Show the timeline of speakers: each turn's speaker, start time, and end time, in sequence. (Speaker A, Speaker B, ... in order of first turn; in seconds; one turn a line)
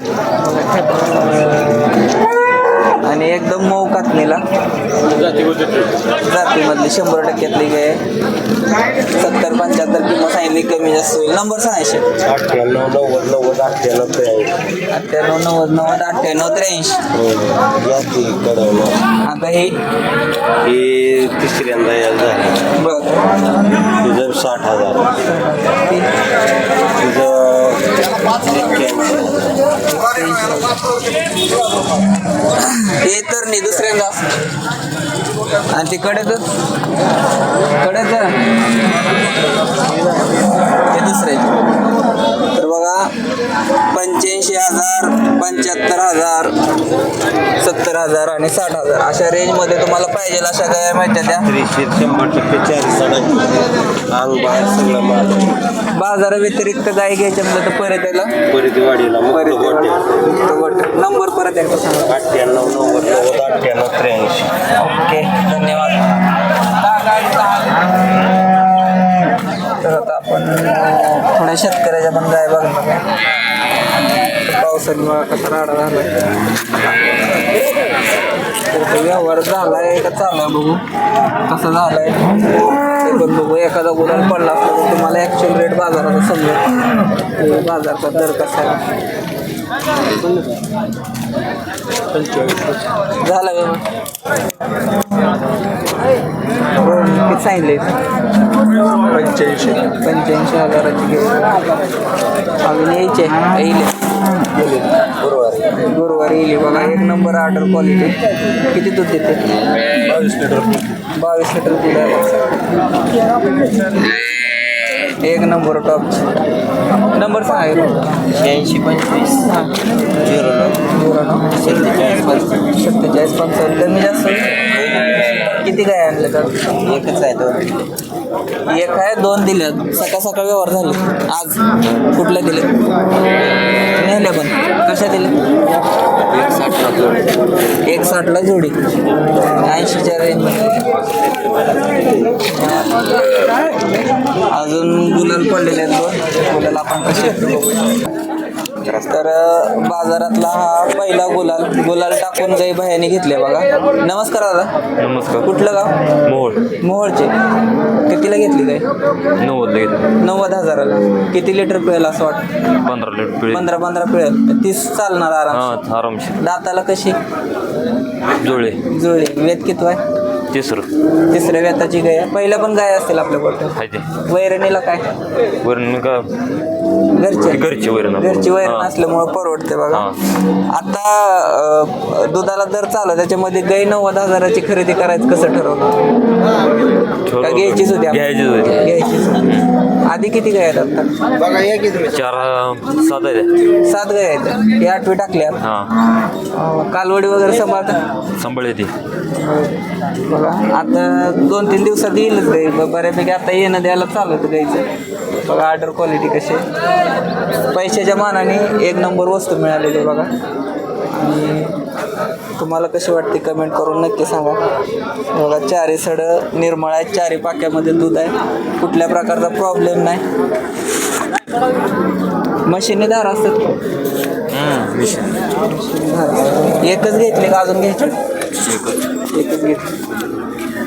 Speaker A: 0.4-1.9
Speaker A: 3.0-4.4
Speaker B: 5.2-5.8
Speaker A: 6.2-8.0
Speaker A: 9.1-12.1
Speaker B: 12.2-14.6
Speaker A: 14.9-17.0
Speaker B: 17.1-19.0
Speaker A: 19.2-19.8
Speaker B: 20.6-22.6
Speaker A: 22.7-23.1
Speaker B: 23.9-25.1
Speaker A: 25.2-26.1
Speaker B: 27.0-29.5
Speaker A: 29.9-30.8
Speaker A: 32.4-34.4
Speaker A: 35.7-36.4
Speaker A: 37.8-38.4
Speaker A: 40.7-41.5
Speaker A: 42.5-43.1
Speaker A: 43.9-46.5
Speaker A: 47.6-51.5
Speaker B: 51.4-55.6
Speaker A: 55.9-58.4
Speaker B: 58.5-60.0
Speaker A: 59.3-62.2
Speaker B: 62.1-64.5
Speaker A: 64.8-66.1
Speaker A: 66.8-67.8
Speaker A: 69.8-73.0
Speaker A: 74.4-76.3
Speaker A: 78.7-80.8
Speaker A: 81.5-86.7
Speaker A: 87.2-88.8
Speaker B: 92.3-92.6
Speaker A: 93.2-93.8
Speaker A: 96.8-98.0
Speaker A: 99.1-101.5
Speaker A: 102.6-103.9
Speaker B: 104.5-105.6
Speaker A: 105.7-109.4
Speaker B: 110.0-110.8
Speaker A: 111.1-112.4
Speaker A: 115.0-116.3
Speaker A: 117.1-118.2
Speaker B: 118.2-120.8
Speaker A: 120.8-121.6
Speaker B: 121.5-122.6
Speaker A: 122.6-126.7
Speaker B: 124.8-125.4
Speaker B: 126.8-127.8
Speaker A: 128.7-131.6
Speaker A: 132.1-132.7
Speaker A: 133.9-135.3
Speaker C: 136.4-137.0
Speaker A: 137.8-138.8
Speaker A: 139.6-140.8
Speaker A: 144.5-148.0
Speaker A: 149.0-154.7
Speaker C: 155.0-155.6
Speaker A: 155.4-155.9
Speaker C: 156.2-156.6
Speaker A: 156.8-157.3
Speaker A: 158.1-158.8
Speaker C: 159.4-160.1
Speaker A: 160.2-162.4
Speaker C: 162.8-163.7
Speaker A: 163.5-165.7
Speaker C: 165.5-166.3
Speaker A: 166.4-167.2
Speaker C: 168.4-168.8
Speaker A: 168.8-170.0
Speaker C: 170.5-170.9
Speaker A: 171.3-175.0
Speaker C: 173.8-174.1
Speaker C: 175.6-176.3
Speaker A: 177.1-185.9
Speaker C: 177.4-178.9
Speaker C: 187.2-189.7
Speaker A: 187.4-191.1
Speaker C: 191.9-193.5
Speaker A: 193.8-195.6
Speaker C: 195.6-195.9
Speaker A: 196.5-197.9
Speaker C: 198.4-198.9
Speaker A: 199.3-204.9
Speaker A: 205.4-206.7
Speaker A: 207.7-210.3
Speaker A: 211.1-211.8
Speaker A: 212.5-214.6
Speaker A: 215.3-220.2
Speaker A: 222.6-223.7
Speaker C: 224.5-225.3
Speaker A: 225.6-228.2
Speaker C: 228.6-229.0
Speaker A: 229.3-229.9